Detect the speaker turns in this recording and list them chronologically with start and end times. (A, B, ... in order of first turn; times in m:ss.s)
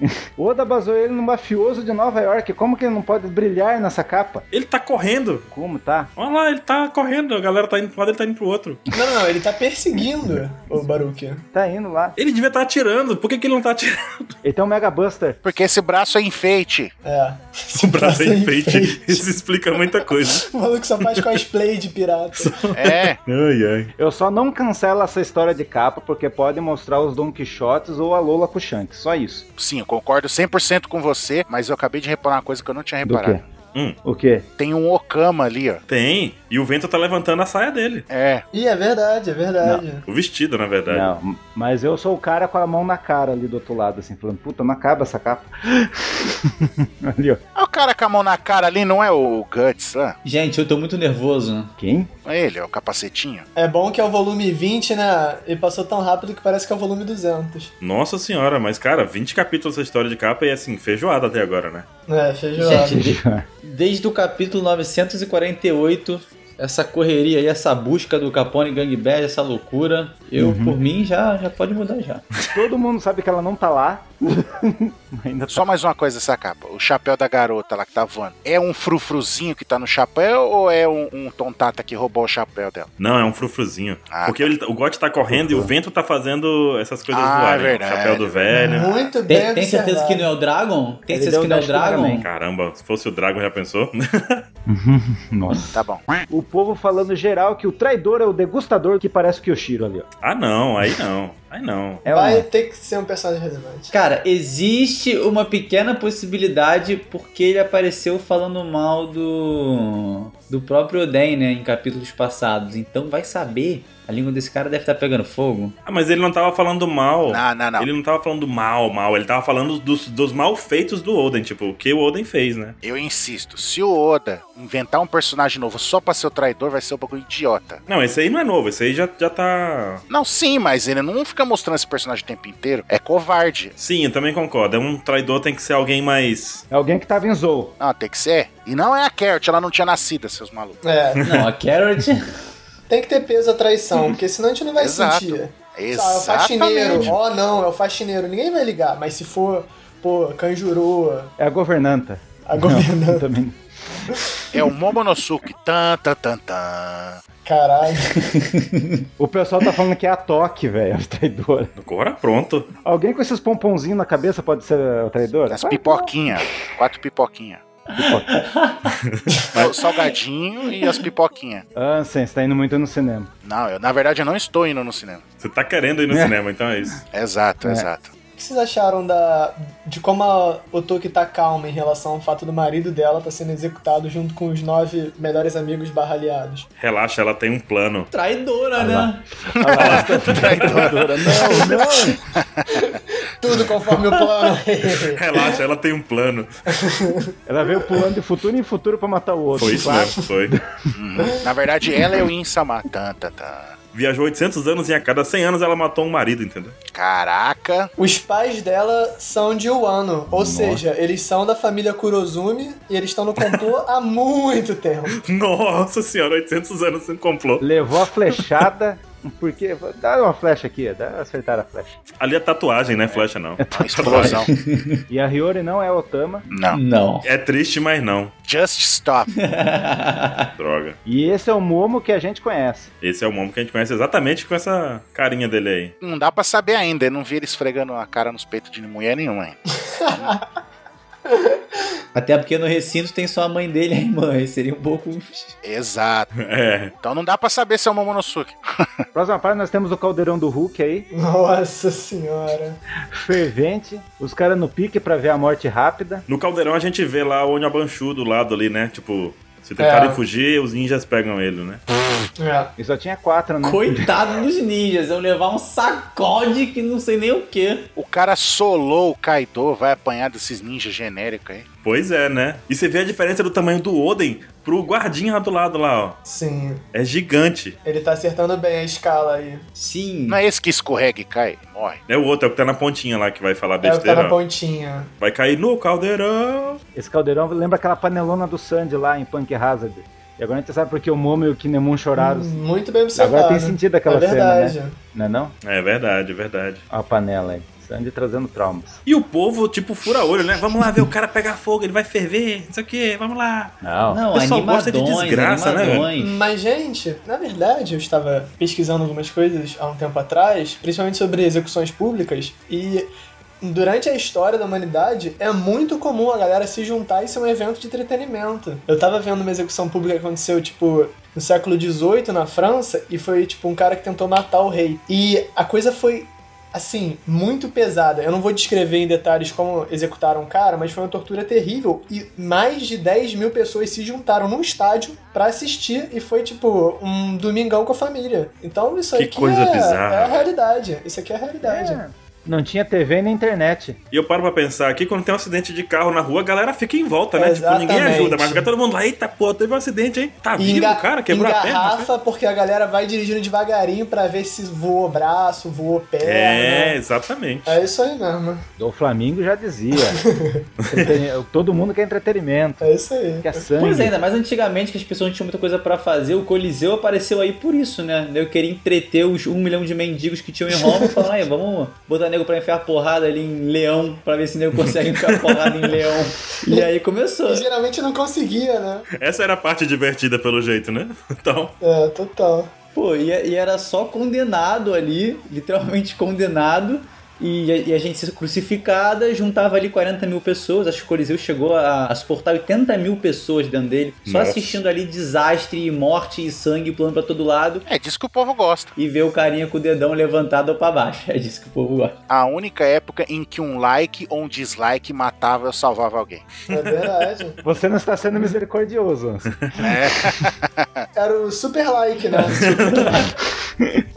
0:00.2-0:04.4 A
0:04.5-0:05.5 B
0:05.5-0:06.1 A
0:06.2-0:08.8 B
0:08.9-0:11.4 C
0:11.5-0:12.2 A
0:12.2-0:14.4 B
0:14.4-0:15.4 A
0:15.4-0:16.9 D
0:17.0-0:19.3 C
0:17.8-0:20.4 B
0:19.9-0:22.7 C
0:21.0-0:21.3 B
0:22.4-0:23.9 B
0:22.7-0:23.2 D
0:24.0-0:29.5 A
0:29.6-0:33.4 D
0:33.0-0:33.4 A
0:34.0-0:34.5 A
0:34.6-0:35.8 D
0:35.9-0:38.1 B
0:38.1-0:38.4 D
0:38.5-0:40.0 C
0:40.1-0:41.1 B
0:40.9-0:47.4 A
0:47.6-0:50.2 D
0:50.2-0:51.7 E
0:51.8-0:52.1 A
0:52.2-0:53.5 D
0:53.6-0:57.7 C
0:57.8-1:01.9 B
1:02.1-1:03.0 C
1:02.6-1:12.2 E
1:02.7-1:03.4 A
1:10.4-1:10.8 A
1:12.5-1:15.6 A
1:15.5-1:22.9 D
1:23.0-1:28.9 B
1:24.1-1:24.5 D
1:25.3-1:25.7 A
1:27.1-1:28.4 D
1:28.5-1:30.3 C
1:29.3-1:32.3 E
1:31.1-1:32.3 A
1:32.2-1:34.4 B
1:34.7-1:40.1 A
1:35.7-1:36.1 D
1:40.2-1:42.0 B
1:42.0-1:42.5 A
1:42.1-1:43.9 C
1:43.9-1:55.8 E
1:55.9-2:02.8 B
1:57.2-1:57.9 D
2:02.8-2:07.8 D
2:07.9-2:10.0 B
2:10.1-2:13.8 D
2:13.8-2:16.6 B
2:16.7-2:17.7 A
2:17.8-2:20.8 D
2:20.8-2:21.2 C
2:21.2-2:21.5 B
2:21.2-2:22.3 E
2:22.9-2:31.3 C
2:24.8-2:27.2 D
2:31.4-2:34.1 A
2:32.5-2:33.2 C
2:34.5-2:37.2 D
2:37.4-2:38.2 C
2:38.2-2:39.0 E
2:39.2-2:41.7 A
2:41.8-2:42.7 B
2:42.8-2:46.1 A
2:45.5-2:47.6 D
2:48.0-2:49.0 E
2:48.0-2:48.4 A
2:49.0-2:49.8 B
2:49.5-2:51.6 D
2:51.8-2:53.3 A
2:53.4-2:55.2 D
2:55.4-2:57.0 B
2:57.1-2:58.1 D
2:58.4-3:06.7 C
3:06.8-3:08.1 B
3:08.1-3:09.2 E
3:08.8-3:12.2 A
3:09.6-3:11.1 D
3:09.7-3:11.6 B
3:11.4-3:11.8 E
3:12.4-3:12.7 D
3:12.8-3:15.6 C
3:15.1-3:16.5 B
3:16.7-3:17.3 C
3:17.5-3:20.8 A
3:19.6-3:20.6 B
3:20.9-3:23.8 D
3:23.9-3:26.8 B
3:26.9-3:27.9 D
3:28.0-3:35.2 C
3:30.3-3:30.8 A
3:35.2-3:37.6 B
3:37.6-3:42.0 A
3:42.2-3:44.4 B
3:43.1-3:44.5 A
3:43.8-3:44.5 D
3:44.2-3:45.0 E
3:45.1-3:46.5 A
3:46.5-3:46.8 D
3:46.7-3:47.3 E
3:47.2-3:48.3 B
3:48.4-3:49.3 D
3:49.4-3:50.5 E
3:50.6-3:51.0 B
3:51.1-3:52.9 A
3:53.0-3:55.9 B
3:56.0-3:59.6 D
3:59.9-4:00.4 C
4:01.3-4:01.8 C
4:02.2-4:05.6 E
4:05.6-4:06.3 D
4:06.4-4:06.9 B
4:07.0-4:08.9 D
4:09.2-4:11.1 A
4:11.1-4:12.8 C
4:13.1-4:16.2 A
4:16.3-4:21.8 B
4:19.8-4:20.2 C
4:22.4-4:22.7 C
4:22.8-4:24.1 A
4:23.6-4:27.9 E
4:28.0-4:31.7 D
4:31.8-4:36.2 B
4:36.2-4:36.8 C
4:36.9-4:37.8 B
4:37.8-4:39.7 C
4:39.8-4:40.4 E
4:40.3-4:42.0 D
4:42.1-4:44.4 B
4:43.8-4:45.1 C
4:45.2-4:46.8 B
4:47.0-4:52.6 A
4:52.2-4:55.0 C
4:53.2-4:55.5 A
4:55.6-4:56.8 B
4:56.9-4:59.0 A
4:59.1-5:03.8 B
5:03.8-5:04.2 A
5:04.1-5:06.3 E
5:04.3-5:06.1 B
5:06.2-5:42.0 C
5:39.1-5:40.4 B
5:41.6-5:44.0 A
5:44.1-5:52.1 B
5:47.4-5:48.7 C
5:50.6-5:57.0 C
5:56.2-5:57.8 B
5:57.6-5:58.6 C
5:58.8-6:00.2 A
6:00.1-6:00.6 C
6:00.8-6:01.2 B
6:00.9-6:02.9 A
6:02.8-6:03.6 C
6:03.4-6:04.2 A
6:03.8-6:17.6 E
6:10.8-6:11.3 C
6:17.5-6:19.1 C
6:19.2-6:21.8 B
6:21.8-6:22.7 C
6:23.0-6:37.8 E
6:34.3-6:34.8 B
6:37.9-6:38.9 D
6:39.0-6:42.2 E
6:42.3-6:46.5 D
6:46.7-6:47.6 C
6:46.7-6:47.0 B
6:47.6-6:49.9 A
6:49.8-6:51.1 D
6:51.2-6:53.3 C
6:52.5-6:53.2 B
6:53.0-6:53.3 A
6:53.8-6:54.0 A